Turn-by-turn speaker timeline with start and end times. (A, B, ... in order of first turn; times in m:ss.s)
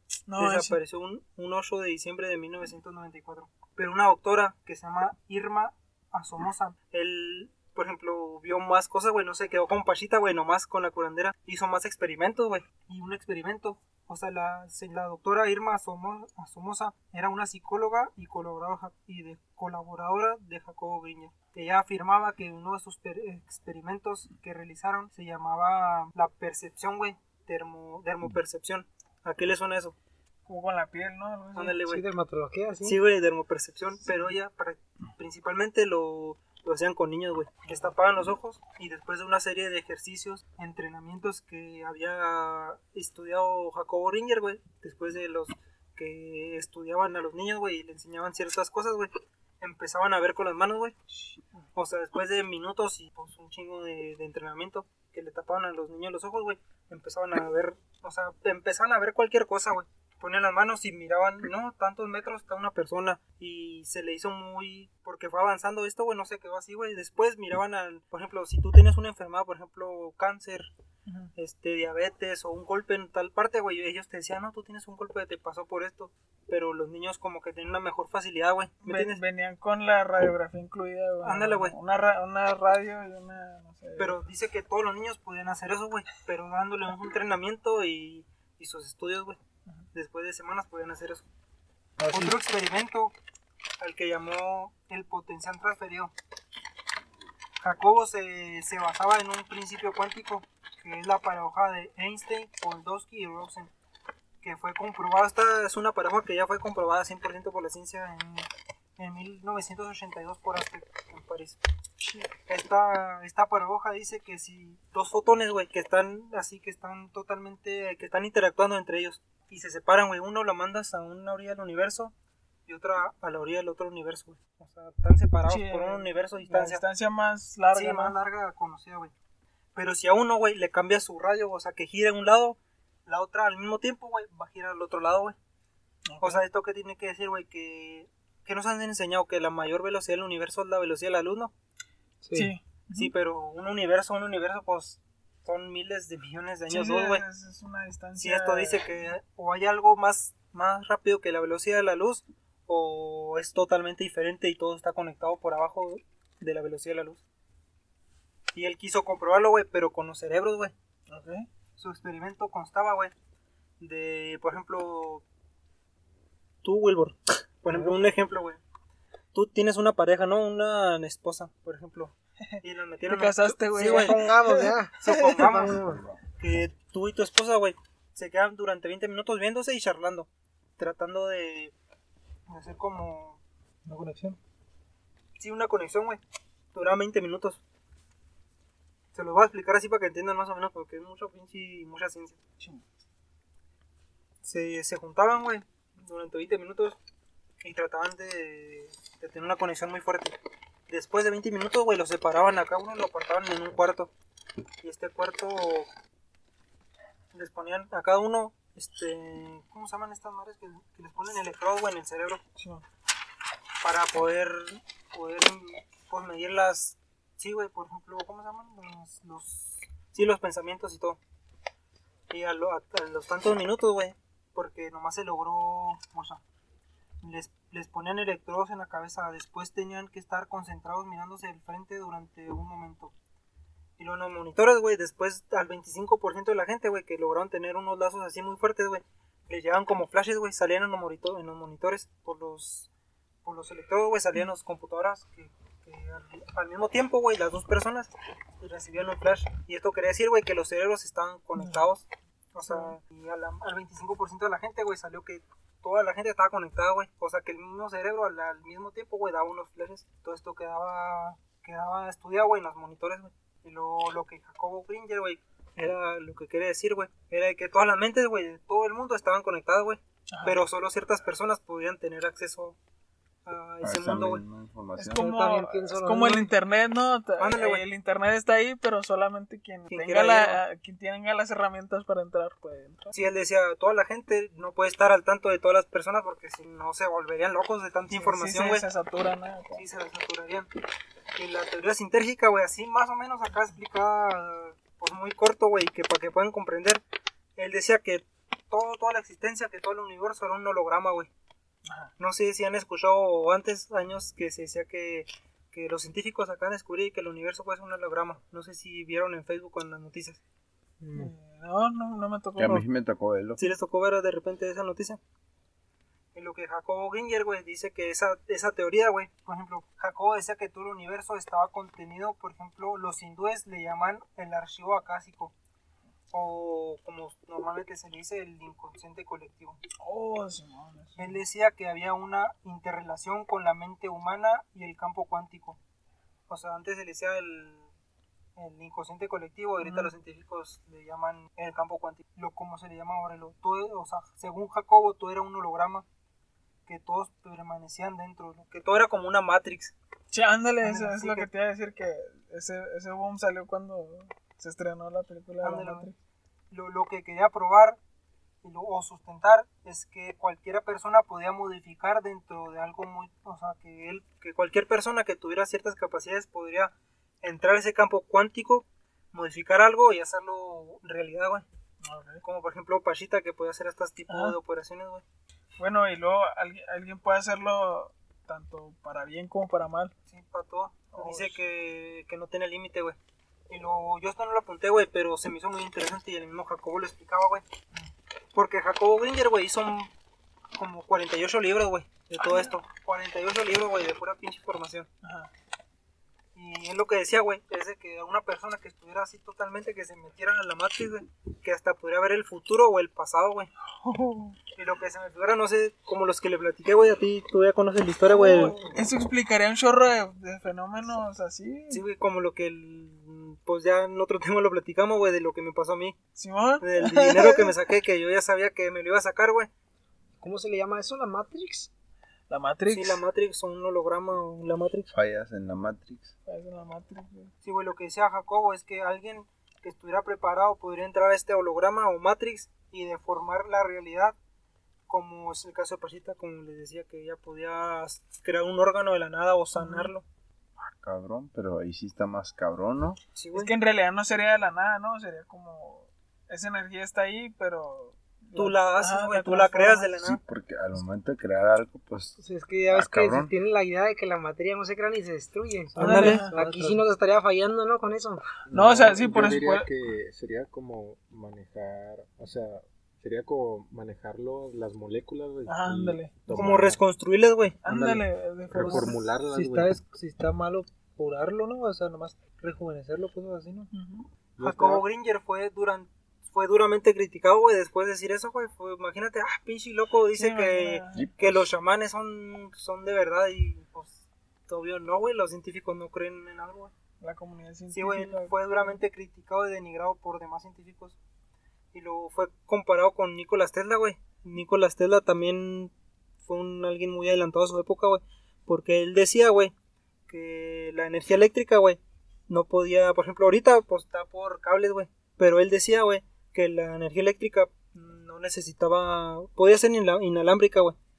0:00.3-0:00.8 A
0:00.4-0:30.0 B
0:30.5-0:31.8 A
0:31.6-0:32.0 B
0:31.8-0:33.0 C
0:32.8-0:51.0 B
0:51.8-1:10.7 B
1:11.1-1:11.3 A
1:11.4-1:19.2 B
1:18.8-1:24.2 A
1:21.2-1:21.8 B
1:24.0-1:29.4 B
1:29.9-1:31.2 B
1:32.0-1:32.3 A
1:32.1-1:33.2 B
1:33.8-1:36.1 B
1:37.6-1:43.7 B
1:44.4-1:51.6 B
1:52.0-1:52.3 A
1:52.5-2:02.1 B
2:02.7-2:06.8 B
2:05.4-2:08.2 A
2:07.7-2:09.1 B
2:09.8-2:15.4 B
2:16.1-2:16.4 A
2:16.2-2:21.5 B
2:22.2-2:22.5 C
2:22.3-2:23.1 A
2:22.9-2:27.2 B
2:26.7-2:28.8 A
2:28.2-2:37.2 B
2:38.5-2:40.7 B
2:41.1-2:41.5 A
2:41.8-2:43.1 B
2:43.8-2:45.2 B
2:46.6-2:48.6 B
2:47.7-2:48.0 A
2:49.3-2:54.2 B
2:52.5-2:55.5 A
2:53.7-2:56.0 C
2:55.0-2:55.8 B
2:56.4-3:01.7 B
3:02.5-3:03.4 B
3:03.9-3:04.4 D
3:05.4-3:06.2 B
3:06.7-3:07.6 B
3:09.1-3:12.4 B
3:14.4-3:17.0 B
3:17.6-3:20.4 B
3:20.9-3:24.1 B
3:24.8-3:25.9 B
3:27.3-3:32.4 B
3:32.6-3:32.8 A
3:33.8-3:41.2 B
3:42.3-3:46.4 B
3:47.2-3:53.1 B
3:54.0-4:02.9 B
4:03.4-4:32.8 B
4:12.6-4:12.9 A
4:30.3-4:30.6 A
4:33.4-4:34.4 B
4:33.8-4:35.3 E
4:35.0-4:43.1 A
4:35.1-4:36.5 C
4:37.4-4:37.8 B
4:39.9-4:40.6 B
4:43.1-4:48.8 B
4:48.1-4:49.8 A
4:49.7-4:50.7 B
4:51.4-4:57.0 B
4:57.6-5:01.3 B
5:01.9-5:02.1 A
5:02.2-5:10.4 B
5:11.0-5:11.3 D
5:11.1-5:12.8 A
5:12.6-5:13.7 E
5:13.6-5:15.2 B
5:16.4-5:25.5 B
5:26.3-5:29.8 B
5:30.0-5:31.4 A
5:31.2-5:35.8 B
5:36.5-5:37.9 B
5:38.6-5:46.0 B
5:39.8-5:40.1 A
5:46.9-5:49.9 B
5:50.3-5:56.2 A
5:50.8-5:51.5 B
5:55.6-5:56.1 B
5:56.7-5:58.0 B
5:58.6-6:11.6 B
6:12.0-6:12.4 A
6:12.4-6:15.2 B
6:14.3-6:14.5 A
6:15.8-6:20.1 A
6:20.3-6:23.2 B
6:21.1-6:21.7 A
6:23.7-6:27.6 B
6:28.5-6:30.1 B
6:30.8-6:35.1 B
6:32.4-6:32.7 A
6:35.2-6:35.5 A
6:36.5-6:43.7 B
6:43.9-6:44.6 A
6:44.8-6:48.8 B
6:48.2-6:52.0 A
6:51.9-6:56.2 B
6:56.4-6:57.7 A
6:56.8-6:59.7 B
7:00.4-7:01.9 C
7:02.5-7:03.2 A
7:02.9-7:05.1 B
7:05.1-7:06.3 E
7:06.5-7:07.5 A
7:07.6-7:14.4 B
7:15.1-7:20.2 B
7:19.8-7:20.1 A
7:20.8-7:23.2 E
7:23.4-7:23.7 B
7:23.5-7:30.1 A
7:28.5-7:30.4 B
7:30.2-7:33.5 E
7:32.4-7:38.4 C
7:35.9-7:37.0 D
7:36.0-7:36.5 B
7:36.0-7:36.6 A
7:38.7-7:47.0 F
7:38.7-7:39.9 A
7:45.7-7:46.4 A
7:46.5-7:47.8 B
7:47.8-7:49.2 A
7:47.9-7:49.9 F
7:48.8-7:53.9 D
7:53.9-7:54.3 A
7:54.6-7:55.0 F
7:54.6-8:06.9 B
8:00.3-8:01.3 A
8:01.1-8:01.7 E
8:07.2-8:09.0 A
8:07.9-8:11.2 B
8:11.9-8:19.7 B
8:20.3-8:31.0 B